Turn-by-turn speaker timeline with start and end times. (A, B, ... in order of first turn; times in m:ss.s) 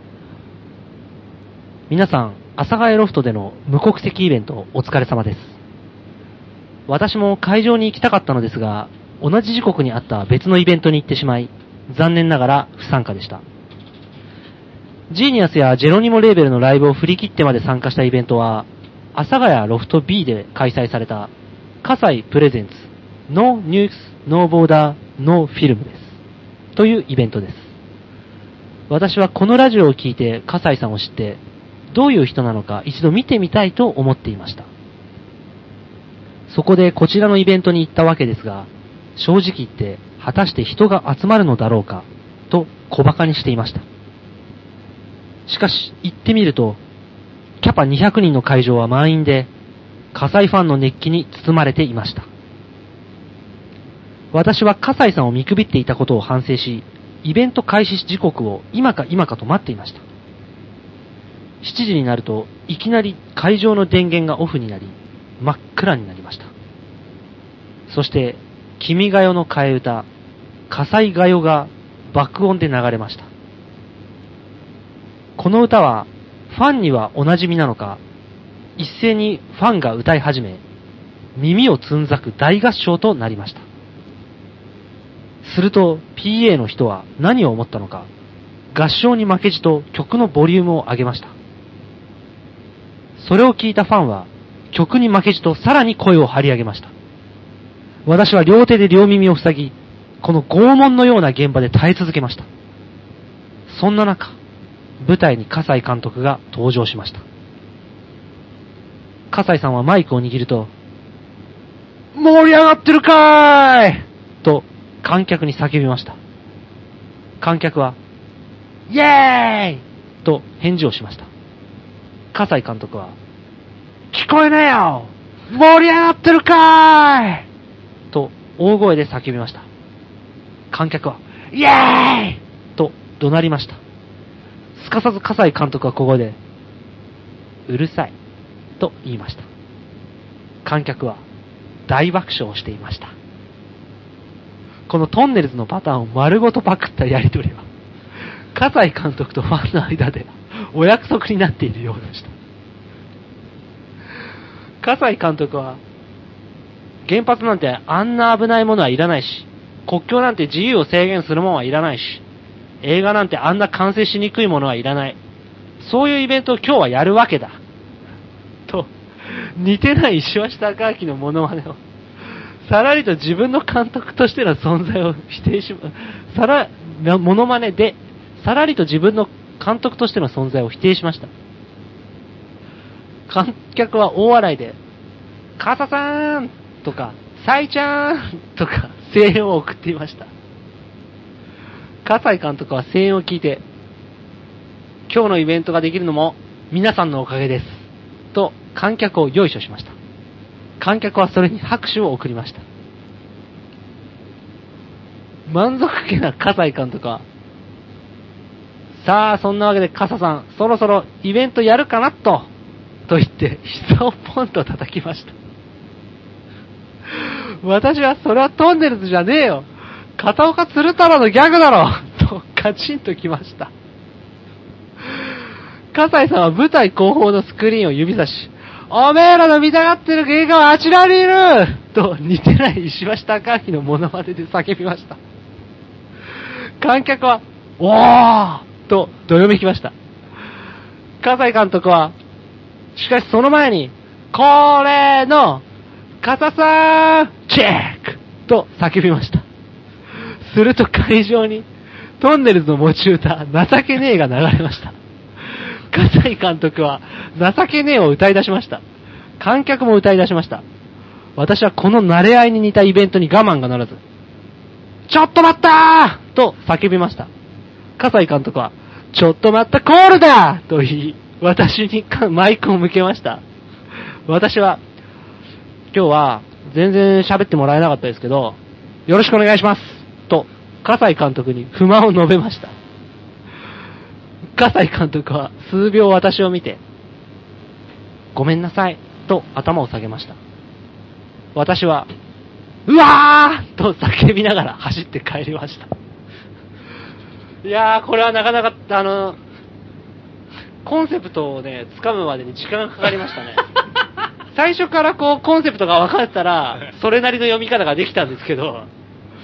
0:01.9-0:05.6 A
0:06.9-0:13.4 A
0:15.1-0:21.3 A
0:21.8-0:26.2 A
0:26.7-0:27.7 A
0:28.9-0:34.7 A
0:36.5-0:43.8 A
0:45.5-0:46.8 A
0:47.6-0:49.5 A
0:50.1-0:52.3 A
0:54.3-1:00.0 A
1:01.6-1:06.5 A
1:07.9-1:10.1 A
1:10.7-1:13.3 A
1:15.4-1:18.0 A
1:18.8-1:20.6 A
1:21.4-1:23.6 A
1:25.4-1:28.1 A
1:28.7-1:31.3 A
1:33.2-1:36.9 A
1:38.0-1:42.5 A
1:43.7-1:44.4 A
1:45.0-1:47.2 A
1:49.3-1:50.7 A
1:52.1-1:56.2 A
1:57.4-1:58.0 A
1:58.9-2:01.3 A
2:02.3-2:03.2 A
2:04.1-2:07.4 A
2:08.1-2:09.6 A
2:10.7-2:13.8 A
2:14.8-2:16.4 A
2:17.7-2:18.1 A
2:18.8-2:19.5 A
2:20.6-2:21.2 A
2:21.9-2:23.1 A
2:24.9-2:27.6 A
2:28.5-2:32.3 A
2:34.8-2:35.8 A
2:37.0-2:42.2 A
2:42.8-2:45.2 A
2:45.8-2:47.6 A
2:48.7-2:51.8 A
2:52.6-3:01.3 A
3:03.3-3:04.8 A
3:05.6-3:10.3 A
3:12.0-3:13.6 A
3:15.1-3:19.9 A
3:20.8-3:22.6 A
3:25.5-3:27.2 A
3:29.0-3:32.5 A
3:33.1-3:35.3 A
3:37.1-3:43.7 A
3:45.9-3:55.2 A
3:56.4-3:59.9 A
4:01.2-4:02.1 A
4:02.9-4:05.6 A
4:06.2-4:09.4 A
4:10.1-4:11.7 A
4:12.2-4:18.8 A
4:19.4-4:20.6 A
4:21.4-4:24.0 A
4:25.1-4:27.3 A
4:28.0-4:33.4 A
4:34.3-4:34.8 A
4:35.9-4:42.7 A
4:44.6-4:46.8 A
4:48.3-4:50.4 A
4:51.5-4:52.1 A
4:52.8-4:55.9 A
4:57.6-4:59.4 A
5:00.8-5:03.8 A
5:04.5-5:08.9 A